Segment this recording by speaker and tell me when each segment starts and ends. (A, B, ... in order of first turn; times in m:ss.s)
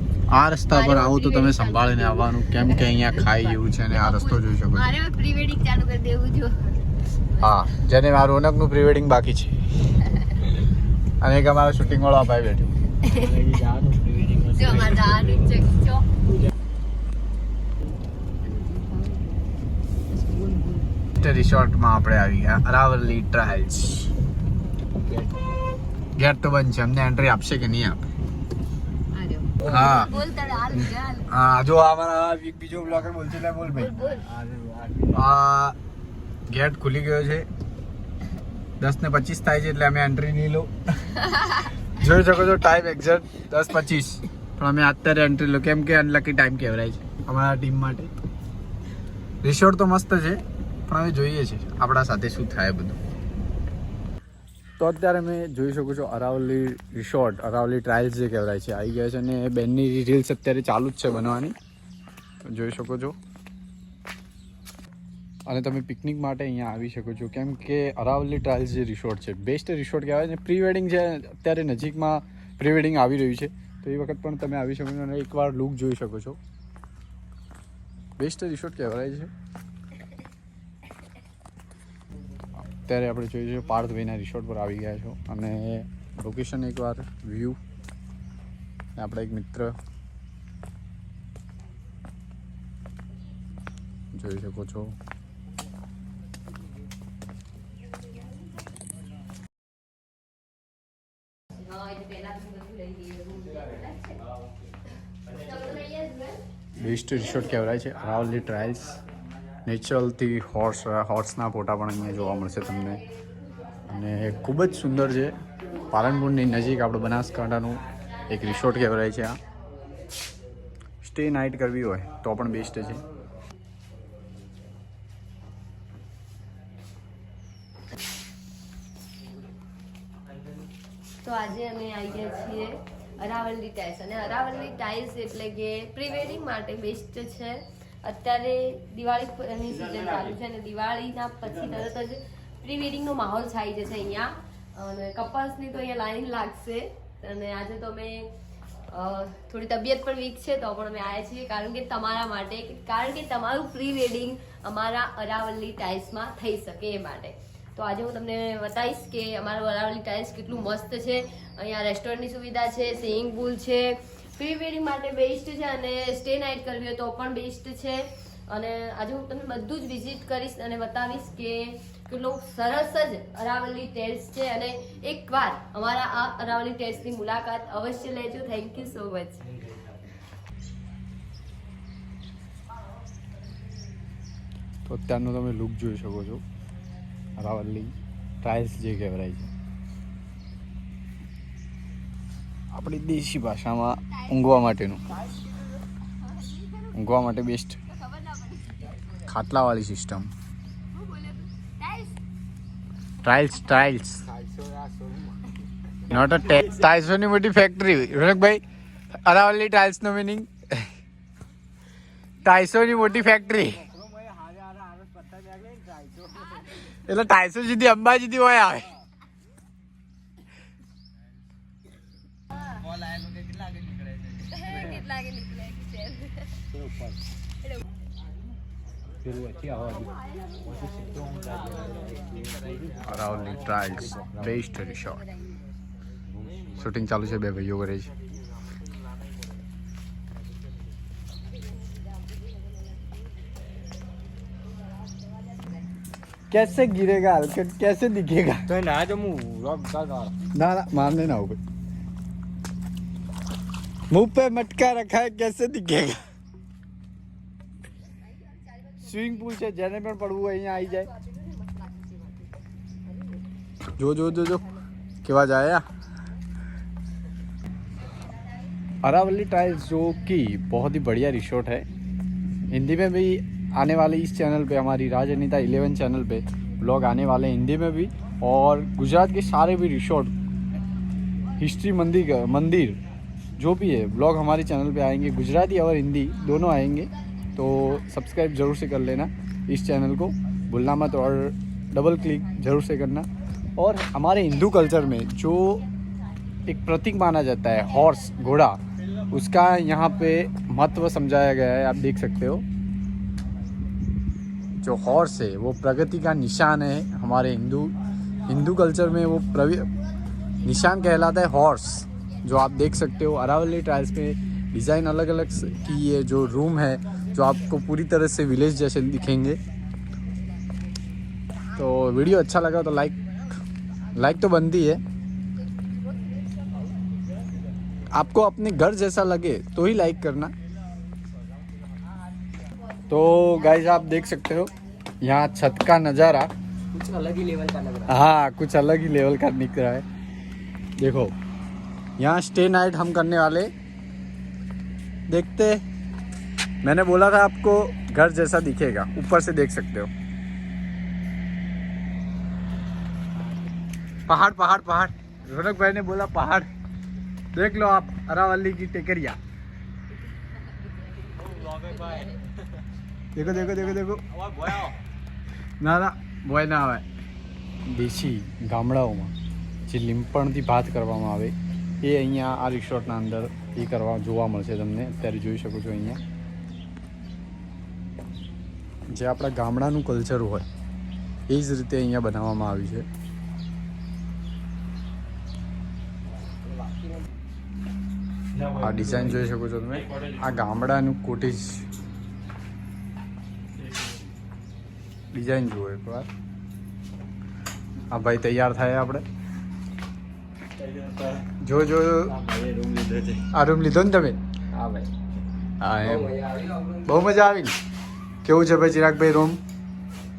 0:00.3-0:04.9 A
0:00.6-0:06.6 B
0:07.3-0:07.8 B
0:07.4-0:09.6 A
0:11.2-0:12.7 A
0:13.0-0:13.3 B
0:13.0-0:15.5 C
0:14.6-0:16.0 B
0:18.4-0:19.5 B
0:20.1-0:20.9 B
0:21.2-0:24.1 A
0:25.0-0:25.4 C
0:26.2-0:28.0 A
0:29.1-0:31.3 B
0:29.6-0:29.9 C
0:29.6-0:30.1 A
0:30.7-0:33.9 A
0:33.7-0:34.3 B
0:33.8-0:35.3 C
0:35.1-0:35.8 A
0:36.5-0:37.5 A
0:38.8-0:40.7 A
0:41.3-0:41.6 B
0:42.0-0:48.1 A
0:49.4-0:53.0 A
0:54.8-1:01.6 A
1:02.5-1:03.2 A
1:05.5-1:16.4 A
1:18.2-1:19.3 A
1:22.7-1:27.6 A
1:29.0-1:29.8 A
1:34.1-1:34.9 A
1:41.6-1:44.2 B
1:45.3-1:46.4 B
1:46.8-1:49.0 A
1:49.6-1:53.0 A
1:53.9-1:55.4 A
1:55.9-1:59.4 A
2:01.0-2:03.0 A
2:11.2-2:28.3 B
2:28.9-2:59.5 B
3:04.9-3:06.4 A
3:07.4-3:09.5 A
3:12.7-3:15.0 A
3:16.2-3:16.9 B
3:16.9-3:17.8 A
3:17.9-3:18.8 B
3:19.3-3:20.3 A
3:20.9-3:22.2 B
3:23.2-3:24.2 A
3:24.2-3:25.5 C
3:26.1-3:28.6 A
3:29.1-3:30.9 A
3:32.4-3:33.9 A
3:33.8-3:36.7 C
3:36.8-3:38.9 A
3:44.5-3:46.4 B
3:44.7-3:45.0 C
3:46.7-3:47.2 C
3:49.2-3:54.6 C
3:50.0-3:50.9 B
3:53.0-3:55.2 A
3:56.4-3:56.8 C
3:56.8-3:58.1 A
4:06.5-4:08.6 A
4:08.7-4:10.4 C
4:10.5-4:11.6 A
4:14.1-4:16.2 A
4:19.0-4:21.1 A
4:21.1-4:22.5 B
4:23.1-4:23.4 B
4:24.0-4:24.6 A
4:25.2-4:25.9 A
4:29.0-4:31.9 A
4:32.7-4:40.3 A
4:41.6-4:43.0 A
4:43.6-4:55.8 A
4:56.7-4:58.8 A
4:59.3-5:02.6 A
5:04.8-5:08.0 A
5:08.5-5:09.9 A
5:10.6-5:19.6 A
5:21.8-5:23.2 A
5:24.2-5:25.0 A
5:28.1-5:30.5 A
5:33.1-5:36.5 A
5:36.9-5:38.1 C
5:38.1-5:40.0 A
5:41.0-5:41.3 A
5:42.2-5:43.7 A
5:45.3-5:45.8 A
5:46.8-5:50.1 A
5:54.3-5:56.7 A
5:57.5-5:59.4 A
6:00.6-6:02.4 B
6:01.4-6:02.4 C
6:03.4-6:04.2 A
6:04.4-6:05.0 C
6:05.8-6:07.0 A
6:07.9-6:09.3 A
6:09.9-6:16.2 A
6:19.1-6:20.7 A
6:21.5-6:23.1 A
6:26.4-6:27.2 C
6:28.5-6:29.5 C
6:28.8-6:31.9 A
6:35.3-6:36.3 A
6:38.1-6:39.2 A
6:40.8-6:41.5 C
6:41.6-6:42.3 A
6:42.2-6:43.5 C
6:43.5-6:44.4 A
6:44.7-6:45.1 C
6:45.8-6:46.4 A
6:46.0-6:47.2 C
6:47.0-6:47.8 A
6:48.4-6:49.6 A